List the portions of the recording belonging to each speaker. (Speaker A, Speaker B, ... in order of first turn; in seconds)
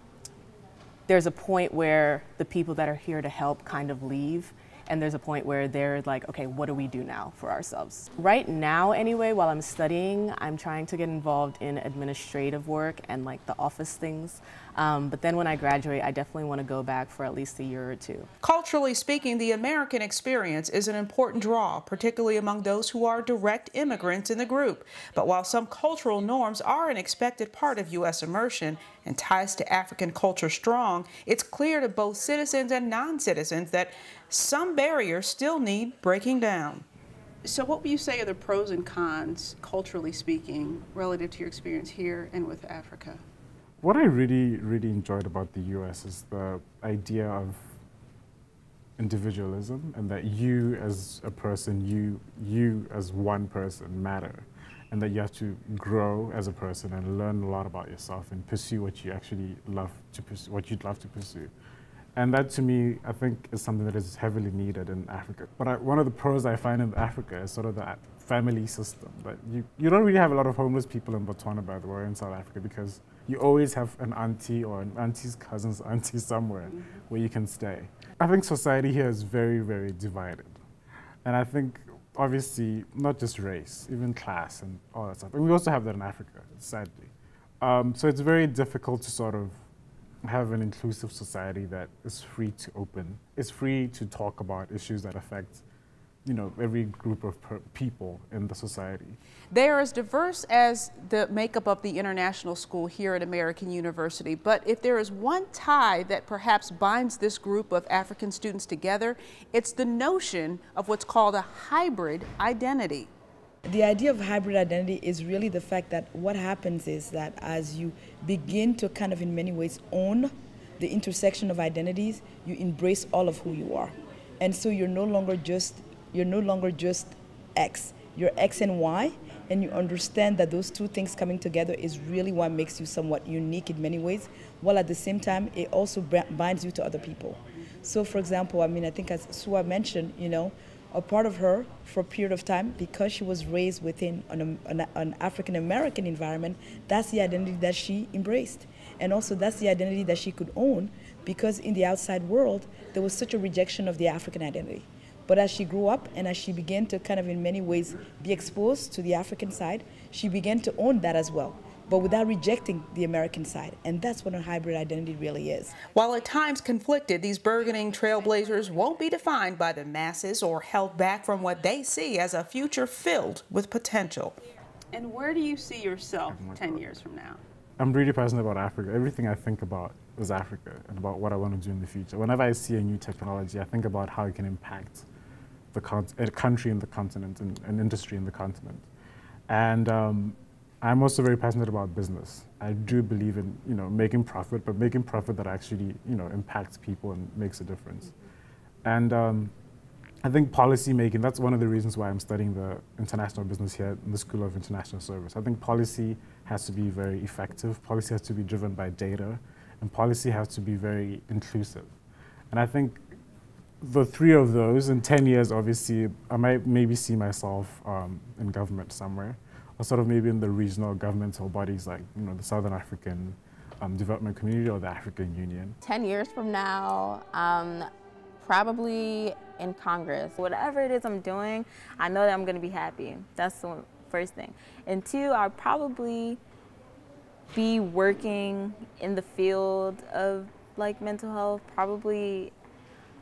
Speaker A: 1.1-18.3
Speaker B: 18.4-36.9, 37.5-43.2, 99.5-113.1, 165.8-174.4
Speaker C: 43.8-47.8, 49.0-61.5, 62.2-80.6, 81.2-89.6, 90.2-95.6, 96.2-99.2, 176.2-177.0, 177.8-185.1, 185.7-188.9, 189.5-198.1, 198.8-199.5, 200.2-211.9, 212.5-213.0, 213.8-225.8
Speaker D: 113.7-165.8
Speaker E: 174.9-177.4
Speaker F: 225.8-227.9, 228.4-230.3
Speaker G: 230.4-236.4, 237.5-242.5